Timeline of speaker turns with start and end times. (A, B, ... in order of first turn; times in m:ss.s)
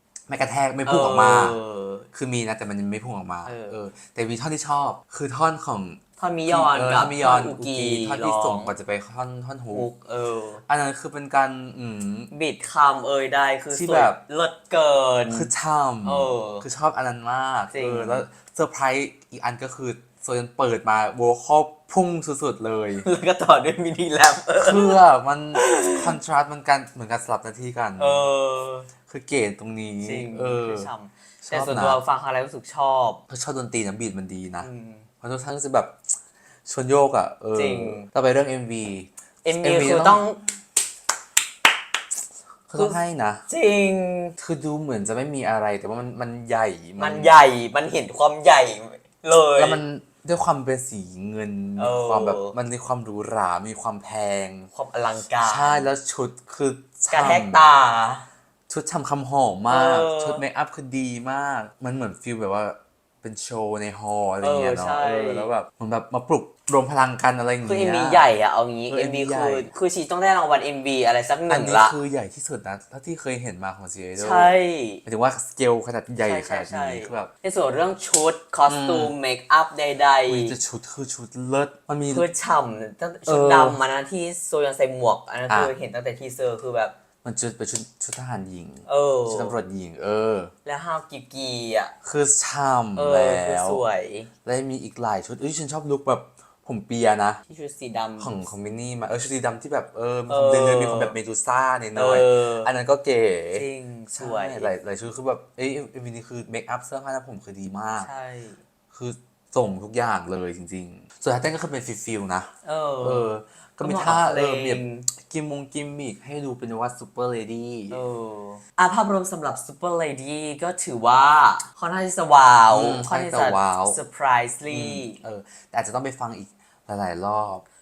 0:00.3-0:01.6 A
0:00.9-0:02.1 B
0:02.1-0:09.9 A
0:03.4-0:03.8 B
0:06.2-0:08.7 B
0:09.7-0:10.6 B
0:10.7-0:12.3 A
0:12.3-0:15.5 B
0:13.7-0:14.2 A
0:15.3-0:23.1 A
0:16.0-0:16.7 B
0:17.7-0:18.2 B
0:23.0-0:25.0 B
0:24.6-0:28.3 A
0:25.6-0:26.1 B
0:28.0-0:28.9 B
0:29.1-0:30.9 A
0:30.0-0:33.2 B
0:31.4-0:32.0 A
0:33.3-0:34.7 A
0:34.6-0:35.1 B
0:35.2-0:36.0 A
0:36.7-0:40.2 A
0:37.5-0:38.1 B
0:39.4-0:40.4 B
0:42.7-0:43.4 A
0:43.5-0:44.4 B
0:44.4-0:47.4 A
0:47.0-0:49.8 B
0:49.6-0:54.7 A
0:51.8-0:52.6 B
0:54.7-0:55.9 B
0:55.4-0:57.6 A
0:57.1-0:58.2 B
0:58.7-1:08.2 A
0:59.7-1:00.4 B
1:04.4-1:05.5 B
1:07.6-1:12.0 B
1:08.9-1:09.7 A
1:11.5-1:17.3 A
1:14.2-1:15.0 B
1:16.2-1:20.6 B
1:18.7-1:19.1 A
1:20.3-1:22.2 A
1:22.1-1:26.9 B
1:23.3-1:23.8 A
1:25.5-1:25.7 A
1:27.2-1:30.5 A
1:28.9-1:29.6 B
1:30.6-1:31.9 B
1:32.0-1:33.8 A
1:33.0-1:34.3 B
1:34.4-1:37.4 A
1:37.5-1:38.4 B
1:38.2-1:48.1 A
1:40.3-1:41.2 B
1:42.0-1:42.7 B
1:43.5-1:44.7 B
1:48.0-1:48.6 B
1:48.9-1:52.5 A
1:52.6-1:53.3 B
1:53.0-1:58.0 A
1:53.8-1:55.1 B
1:57.9-2:05.2 B
2:02.7-2:04.0 A
2:04.7-2:07.6 A